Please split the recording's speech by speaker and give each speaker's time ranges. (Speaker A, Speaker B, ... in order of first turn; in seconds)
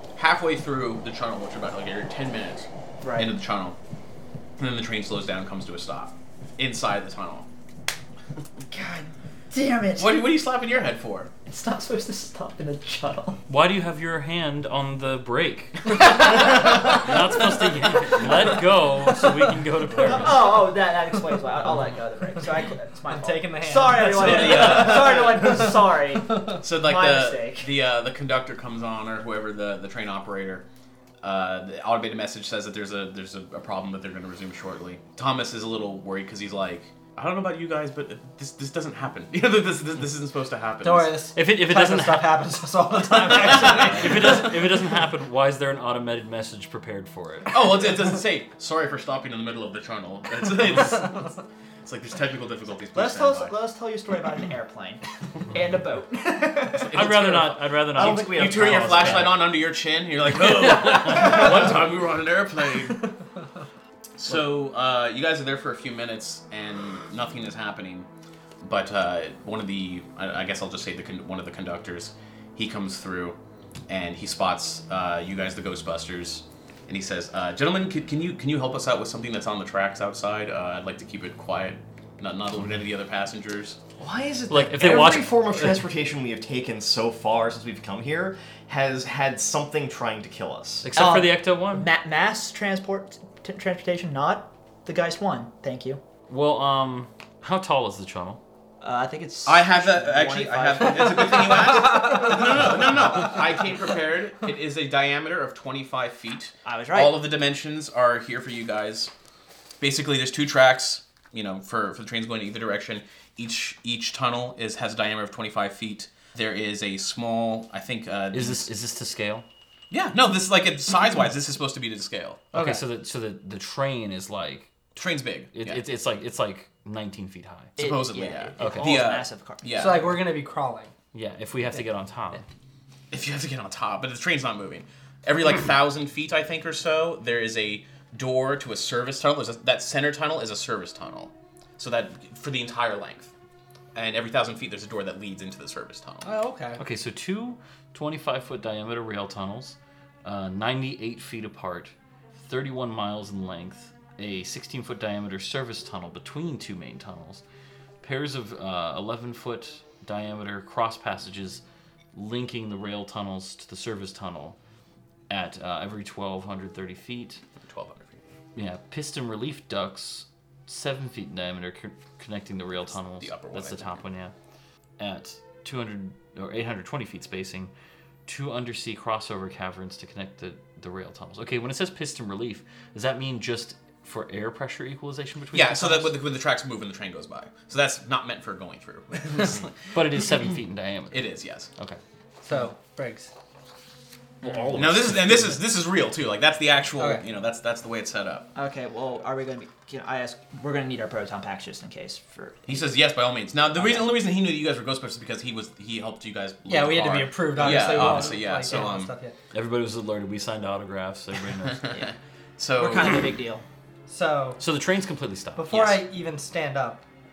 Speaker A: 0.2-3.8, 4.6-7.5, 10.0-11.3, 24.1-25.4, 26.6-30.6, 31.2-41.2, 43.4-44.1, 47.5-51.3, 51.9-53.5, 56.7-63.1, 64.2-68.1, 68.6-73.4, 73.9-83.8, 99.5-109.1, 109.8-118.7, 119.9-122.5, 125.0-125.8, 127.8-130.2, 133.1-143.3, 143.9-146.3, 167.6-168.2, 173.2-174.0, 185.5-190.3, 191.1-191.7, 194.7-198.5, 202.7-209.1, 211.8-213.3, 215.7-216.0
Speaker B: 3.0-3.3, 8.7-10.2, 11.5-13.4, 20.0-27.7, 53.0-56.9, 91.0-96.0, 98.8-101.6, 106.7-107.2, 127.8-129.8, 194.4-194.8, 198.6-202.9, 203.8-204.1, 212.8-213.6
Speaker C: 13.5-20.6, 41.3-42.5, 43.2-47.8, 56.9-59.4, 60.9-61.4, 84.5-85.8, 90.8-91.9, 96.3-98.4, 118.3-119.5, 122.5-124.7, 125.5-127.8, 128.6-129.0, 131.1-132.4, 146.8-157.4, 158.0-161.6, 162.1-164.6, 165.3-167.4, 168.6-174.3, 175.0-177.7, 178.3-186.2, 189.9-192.0, 194.4-195.6, 207.8-208.3, 209.5-211.9, 214.6-215.9
Speaker D: 23.1-26.5, 40.8-44.4, 102.0-102.3, 122.5-122.8, 129.7-130.9, 146.2-146.8, 192.4-193.3, 197.0-197.2, 206.7-209.3, 214.1-214.6, 215.6-217.0
Speaker E: 58.0-59.4, 84.0-90.9